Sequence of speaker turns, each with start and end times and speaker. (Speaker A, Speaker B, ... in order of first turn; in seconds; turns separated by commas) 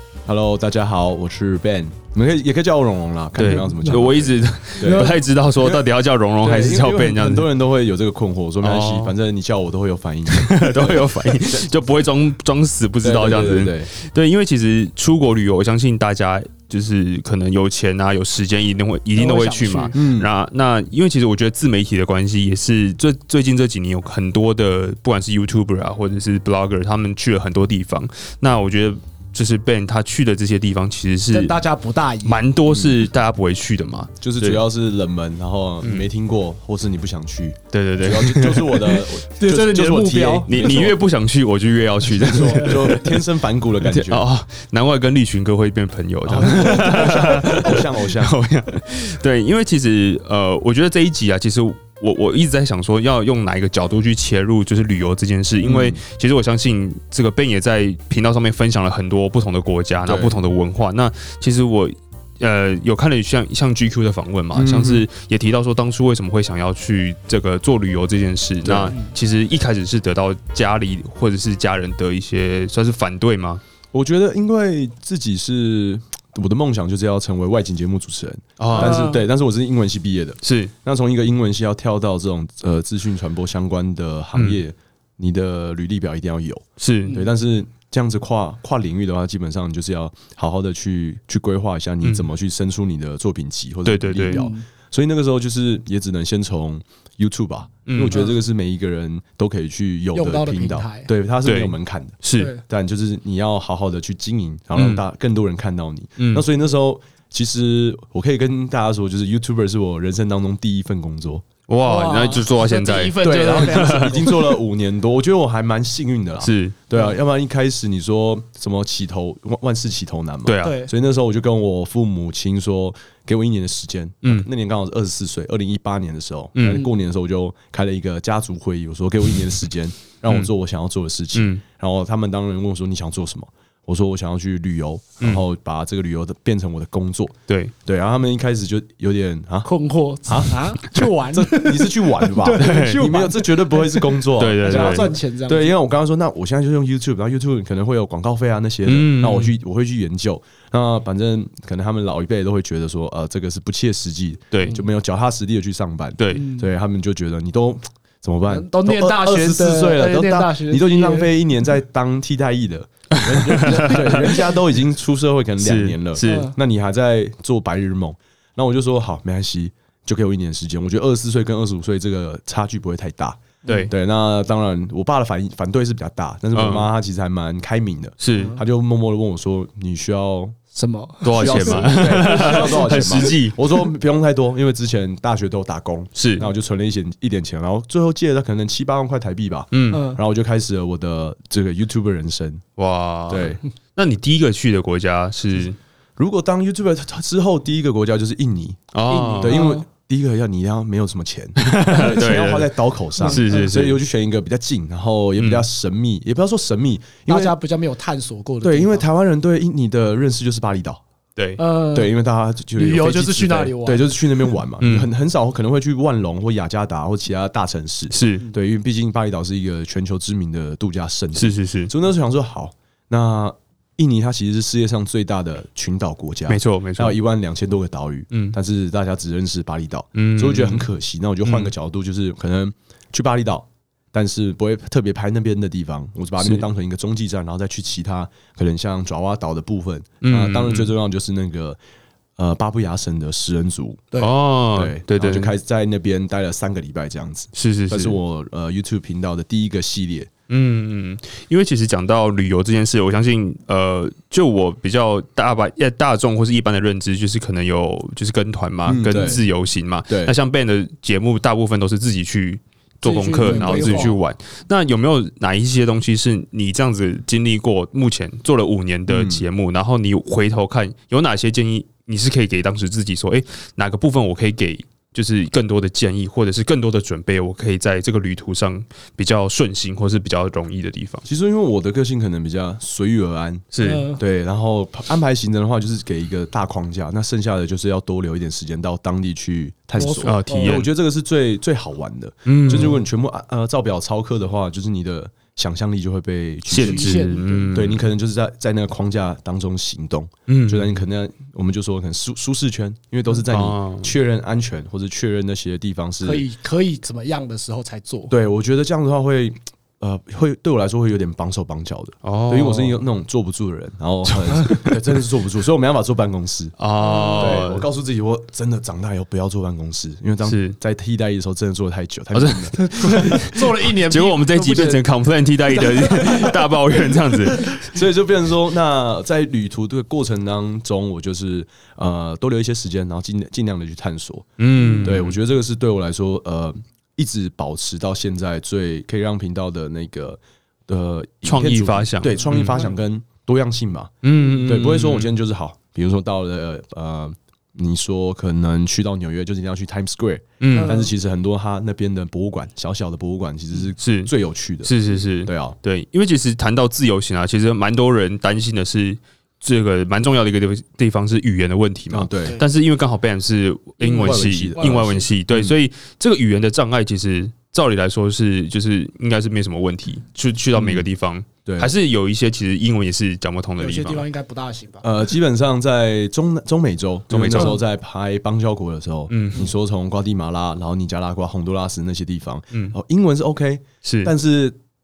Speaker A: 0.2-5.8, Speaker B: 3.4-7.5, Speaker C: 4.8-5.2, Speaker A: 6.4-11.7, Speaker B: 8.6-9.1, Speaker B: 10.3-31.6, Speaker A: 13.0-13.9, Speaker C: 19.1-20.0, Speaker A: 19.9-20.3, Speaker C: 31.3-32.5, Speaker B: 32.2-34.6, Speaker A: 34.2-41.0, Speaker B: 37.7-39.1, Speaker C: 39.4-40.5, Speaker B: 40.5-43.2, Speaker A: 42.1-44.2, Speaker B: 43.8-73.6, Speaker A: 46.2-48.3, Speaker C: 46.5-47.5, Speaker A: 55.6-56.0, Speaker A: 60.0-60.4, Speaker A: 64.5-65.0, Speaker A: 68.6-68.9, Speaker A: 73.9-111.4, Speaker B: 78.6-79.0, Speaker C: 78.7-79.2, Speaker B: 80.4-80.7, Speaker B: 84.3-84.6, Speaker B: 86.8-87.1, Speaker B: 92.0-92.3, Speaker B: 93.8-94.5, Speaker C: 94.2-94.6, Speaker B: 97.9-98.3, Speaker C: 98.1-98.4, Speaker C: 100.1-101.1, Speaker B: 101.4-102.5, Speaker C: 102.3-102.6, Speaker B: 104.7-105.0, Speaker B: 106.2-106.4, Speaker B: 111.7-114.2, Speaker C: 111.8-114.6, Speaker A: 113.2-137.3, Speaker B: 116.4-116.8, Speaker B: 120.5-120.8, Speaker C: 120.6-120.9, Speaker B: 126.5-126.8, Speaker B: 131.3-131.6, Speaker B: 137.5-137.7, Speaker A: 137.8-139.7, Speaker C: 139.6-145.7, Speaker A: 140.2-180.6, Speaker B: 142.5-143.1, Speaker B: 144.4-145.1, Speaker B: 148.8-149.5, Speaker B: 156.2-156.5, Speaker C: 156.3-156.7, Speaker C: 158.5-161.3, Speaker B: 163.1-164.4, Speaker C: 163.7-164.4, Speaker B: 165.6-166.5, Speaker C: 166.2-166.5, Speaker C: 173.6-173.9, Speaker B: 173.6-173.9, Speaker B: 176.5-176.9, Speaker B: 178.2-178.6, Speaker C: 178.3-178.6, Speaker C: 180.7-183.3, Speaker B: 181.2-183.6, Speaker A: 181.3-192.6, Speaker B: 186.1-186.5, Speaker B: 189.7-190.0, Speaker C: 189.9-190.2, Speaker B: 192.8-195.8, Speaker A: 193.3-193.6, Speaker A: 196.2-207.5, Speaker B: 198.9-199.6, Speaker C: 199.1-199.8, Speaker B: 201.6-204.0, Speaker C: 201.9-202.2, Speaker C: 203.2-203.7, Speaker B: 205.4-205.6, Speaker C: 207.3-209.1, Speaker A: 208.6-211.0, Speaker B: 211.3-211.6, Speaker C: 211.6-212.1, Speaker A: 211.9-241.8, Speaker C: 212.8-214.5, Speaker B: 214.8-215.1, Speaker B: 218.1-218.4, Speaker B: 221.3-221.9, Speaker B: 226.5-227.2, Speaker B: 230.1-230.9, Speaker B: 231.4-231.7, Speaker B: 236.4-236.7, Speaker B: 240.2-240.9, Speaker A: 242.4-244.1, Speaker B: 244.2-245.5, Speaker A: 244.7-250.3, Speaker B: 247.5-248.2, Speaker B: 250.5-281.2, Speaker A: 258.9-259.4, Speaker A: 260.1-260.3, Speaker C: 263.0-264.2, Speaker A: 263.4-264.1, Speaker A: 269.1-269.4, Speaker A: 281.2-306.4, Speaker B: 283.7-284.1, Speaker C: 283.8-284.2, Speaker C: 290.0-290.8, Speaker B: 290.2-290.9, Speaker B: 292.4-292.9, Speaker C: 292.7-293.0, Speaker B: 296.7-298.0, Speaker C: 296.7-297.8, Speaker B: 300.5-300.9, Speaker B: 303.5-304.1, Speaker C: 306.2-308.3, Speaker A: 308.3-316.8, Speaker B: 312.2-313.0, Speaker B: 314.3-315.0, Speaker B: 316.8-317.9, Speaker C: 317.0-317.8, Speaker A: 317.4-323.4, Speaker B: 320.4-320.8, Speaker B: 322.3-327.9, Speaker C: 322.8-325.0, Speaker C: 325.8-326.5, Speaker A: 325.8-326.4, Speaker A: 327.8-334.5, Speaker B: 334.6-335.4, Speaker A: 335.0-354.9, Speaker B: 341.4-342.9, Speaker B: 344.2-345.3, Speaker B: 350.6-351.0, Speaker C: 350.7-351.1, Speaker B: 354.0-354.3, Speaker B: 354.8-374.2, Speaker A: 355.4-355.7, Speaker A: 362.1-362.6, Speaker C: 364.0-365.2, Speaker A: 364.1-365.7, Speaker A: 370.7-371.1, Speaker A: 371.6-371.9, Speaker C: 373.8-375.0, Speaker A: 375.0-384.8, Speaker B: 377.3-377.7, Speaker C: 377.5-377.8, Speaker B: 379.3-379.7, Speaker B: 384.0-384.3